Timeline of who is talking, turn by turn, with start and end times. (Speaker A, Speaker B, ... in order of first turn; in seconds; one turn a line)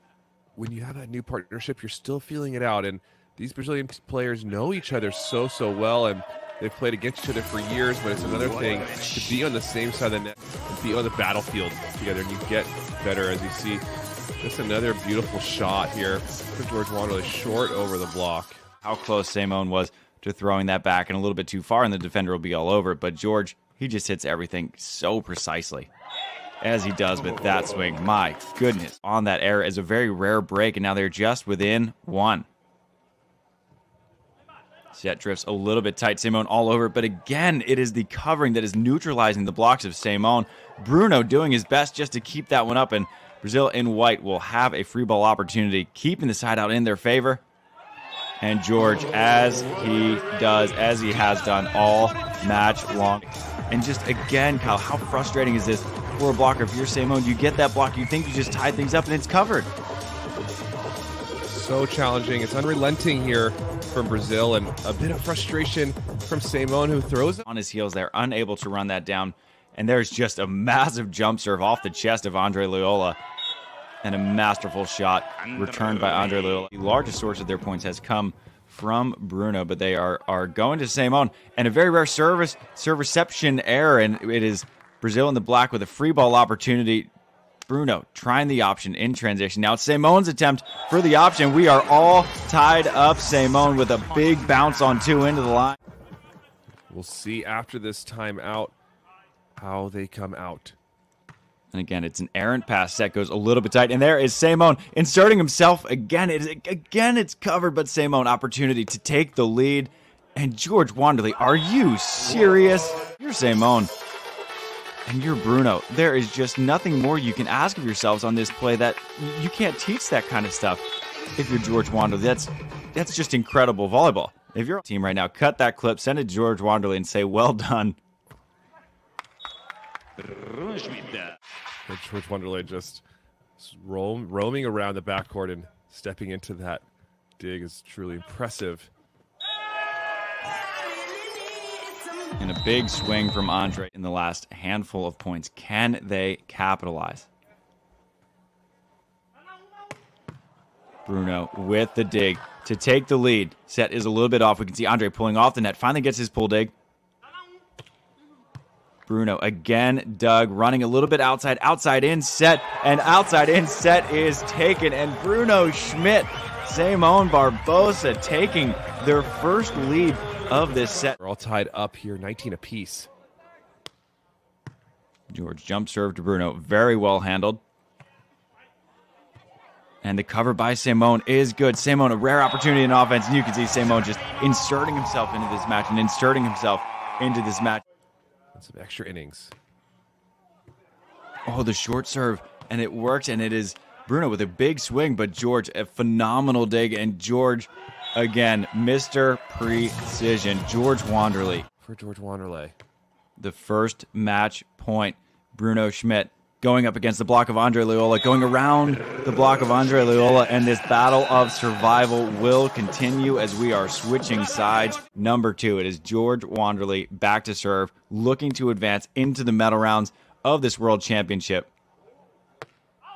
Speaker A: 0.6-13.8
Speaker A: 14.4-18.6
Speaker B: 18.8-25.9
Speaker B: 26.6-32.5
Speaker B: 34.9-47.4
Speaker B: 48.4-59.7
Speaker A: 61.5-67.4
Speaker B: 67.5-73.2
Speaker B: 74.0-87.1
Speaker B: 87.7-95.8
Speaker A: 96.9-98.7
Speaker A: 99.6-100.8
Speaker B: 101.7-113.9
Speaker B: 115.1-120.8
Speaker B: 121.4-128.0
Speaker A: 131.9-133.0
Speaker A: 133.6-136.8
Speaker A: 137.4-138.9
Speaker B: 142.4-147.3
Speaker B: 151.1-156.7
Speaker B: 159.1-171.1
Speaker A: 171.2-173.1
Speaker B: 175.3-177.6
Speaker B: 180.0-187.8
Speaker A: 188.5-189.5
Speaker B: 191.5-201.7
Speaker A: 201.8-202.8
Speaker B: 203.4-221.7